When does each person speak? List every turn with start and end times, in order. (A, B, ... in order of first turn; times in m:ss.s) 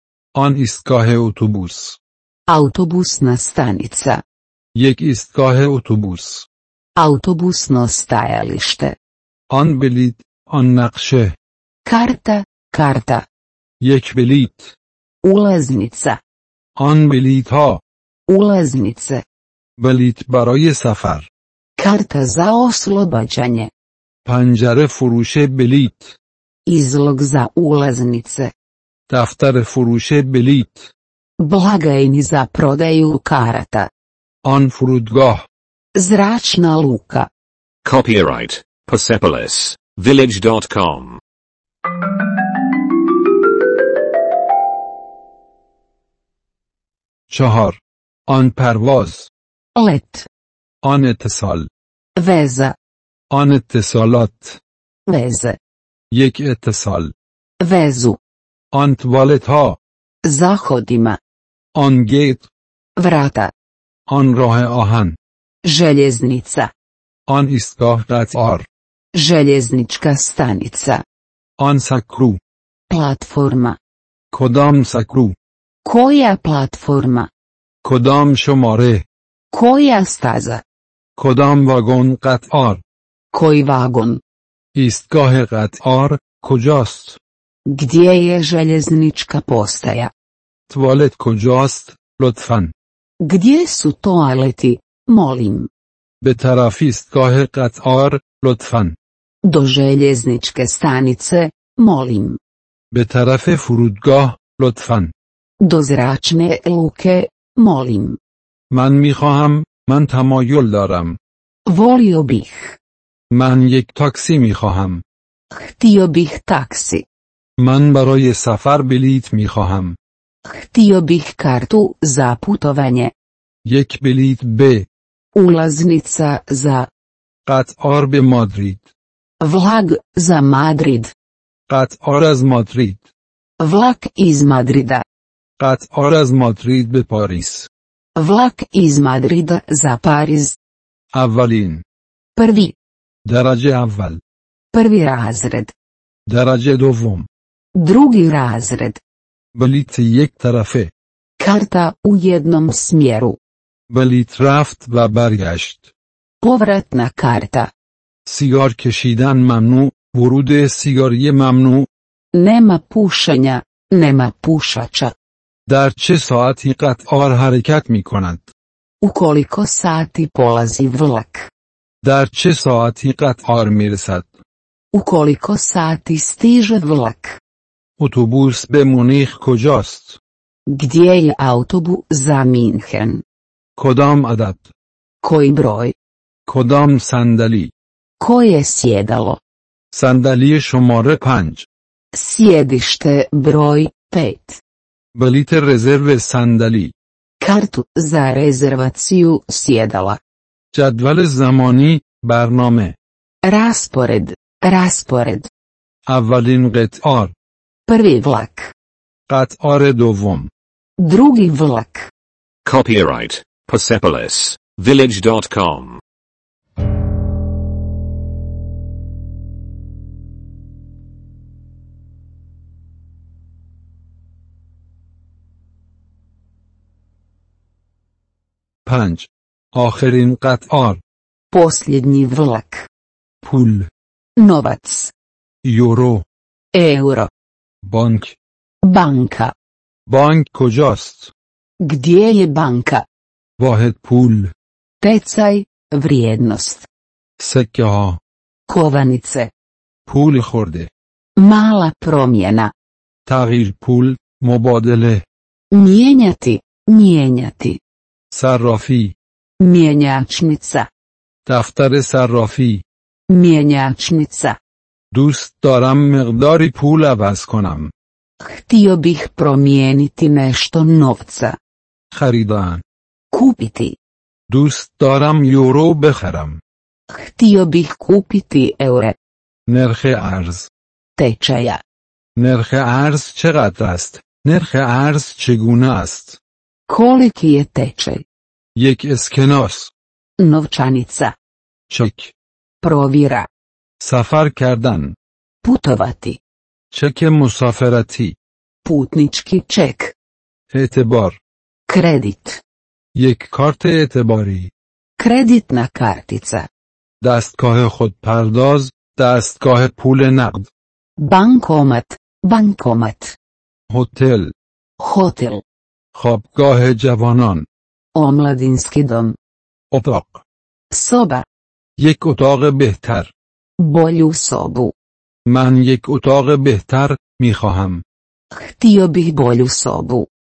0:00.3-0:02.0 A
0:02.5-0:04.2 B
0:04.8-0:06.5 A
0:07.0-0:09.0 B
0:09.5-0:11.4 A
0:11.8-0:13.2 B
0:13.8-0:14.8 A
0:15.2-0:16.2 B
0:16.8-0:17.8 A
0:18.3-0:19.2 B
0:19.8-0:21.3 A
0:21.8-0:23.7 B
0:24.2-0:26.2 A
0:26.7-0:28.5 B
0:29.1-0:30.9 A
0:31.4-0:33.9 B
0:34.4-0:35.4 A
0:36.0-0:37.3 B
0:37.8-0:41.2 C
0:47.3-0:49.3 A
0:49.8-0:50.3 B
0:50.8-0:51.7 A
0:52.2-0:52.8 B
0:53.3-0:54.6 A
0:55.1-0:55.6 B
0:56.1-0:57.1 A
0:57.6-0:58.2 B
0:58.7-0:59.8 A
1:00.2-1:01.2 B
1:01.8-1:02.5 A
1:03.0-1:03.5 B
1:04.1-1:05.2 A
1:05.6-1:06.7 B
1:07.3-1:08.7 A
1:09.1-1:11.0 B
1:11.6-1:12.4 A
1:12.9-1:13.8 B
1:14.3-1:15.4 A
1:15.8-1:17.3 B
1:17.8-1:19.0 A
1:19.5-1:20.6 B
1:21.2-1:22.8 A
1:23.3-1:24.2 B
1:24.8-1:27.2 A
1:27.7-1:30.1 B
1:30.7-1:32.7 A
1:33.2-1:35.7 B
1:36.2-1:39.0 A
1:39.4-1:42.4 B
1:42.9-1:45.1 A
1:45.6-1:48.2 B
1:48.7-1:51.2 A
1:51.7-1:52.8 B
1:53.3-1:55.0 A
1:55.5-1:57.0 B
1:57.6-2:00.0 A
2:00.4-2:03.1 B
2:03.6-2:04.9 A
2:05.4-2:06.9 B
2:07.5-2:08.9 A
2:09.4-2:11.1 B
2:11.7-2:13.0 A
2:13.6-2:15.0 B
2:15.6-2:17.7 A
2:18.2-2:20.6 B
2:21.1-2:21.8 A
2:22.4-2:22.8 B
2:23.2-2:24.2 A
2:24.7-2:25.7 B
2:26.3-2:27.3 A
2:27.8-2:29.0 B
2:29.5-2:30.9 A
2:31.4-2:33.4 B
2:33.9-2:35.9 A
2:36.4-2:37.7 B
2:38.2-2:41.9 A
2:42.3-2:45.1 B
2:45.7-2:48.5 A
2:49.0-2:51.5 B
2:52.0-2:54.4 A
2:54.9-2:57.4 B
2:58.0-3:00.2 A
3:00.7-3:03.2 B
3:03.8-3:04.7 A
3:05.2-3:06.0 B
3:06.5-3:07.7 A
3:08.2-3:09.4 B
3:09.9-3:11.7 A
3:12.1-3:14.6 B
3:15.1-3:16.9 A
3:17.4-3:20.2 B
3:20.7-3:23.0 A
3:23.4-3:25.5 B
3:26.1-3:27.3 A
3:27.9-3:28.7 B
3:29.3-3:30.5 A
3:31.0-3:32.1 B
3:32.6-3:36.0 C
3:48.8-3:51.0 A
3:51.5-3:52.9 B
3:53.4-3:53.9 A
3:54.4-3:55.1 B
3:55.6-3:56.2 A
3:56.7-3:57.3 B
3:57.8-3:58.4 A
3:58.8-3:59.5 B
4:00.1-4:01.3 A
4:01.8-4:03.0 B
4:03.6-4:04.5 A
4:05.0-4:06.9 B
4:07.4-4:08.2 A
4:08.7-4:09.5 B
4:10.1-4:10.9 A
4:11.4-4:12.7 B
4:13.2-4:15.2 A
4:15.7-4:17.8 B
4:18.3-4:19.1 A
4:19.6-4:20.9 B
4:21.5-4:22.8 A
4:23.3-4:24.6 B
4:25.1-4:27.9 A
4:28.4-4:31.6 B
4:32.1-4:32.8 A
4:33.3-4:34.0 B
4:34.5-4:36.6 A
4:37.1-4:39.2 B
4:39.7-4:40.7 A
4:41.2-4:41.8 B
4:42.4-4:46.4 A
4:46.9-4:48.2 B
4:48.8-4:49.9 A
4:50.4-4:51.4 B
4:51.9-4:52.3 A
4:52.8-4:53.5 B
4:54.0-4:55.2 A
4:55.6-4:56.4 B
4:56.9-4:58.4 A
4:58.8-5:00.1 B
5:00.7-5:01.4 A
5:01.9-5:02.6 B
5:03.1-5:04.7 A
5:05.2-5:06.7 B
5:07.2-5:10.7 A
5:11.2-5:13.4 B
5:13.9-5:14.5 A
5:15.0-5:15.6 B
5:16.1-5:17.6 A
5:18.1-5:19.4 B
5:19.9-5:20.4 A
5:20.9-5:21.4 B
5:22.0-5:23.3 A
5:23.8-5:24.9 B
5:25.5-5:28.0 A
5:28.5-5:30.3 B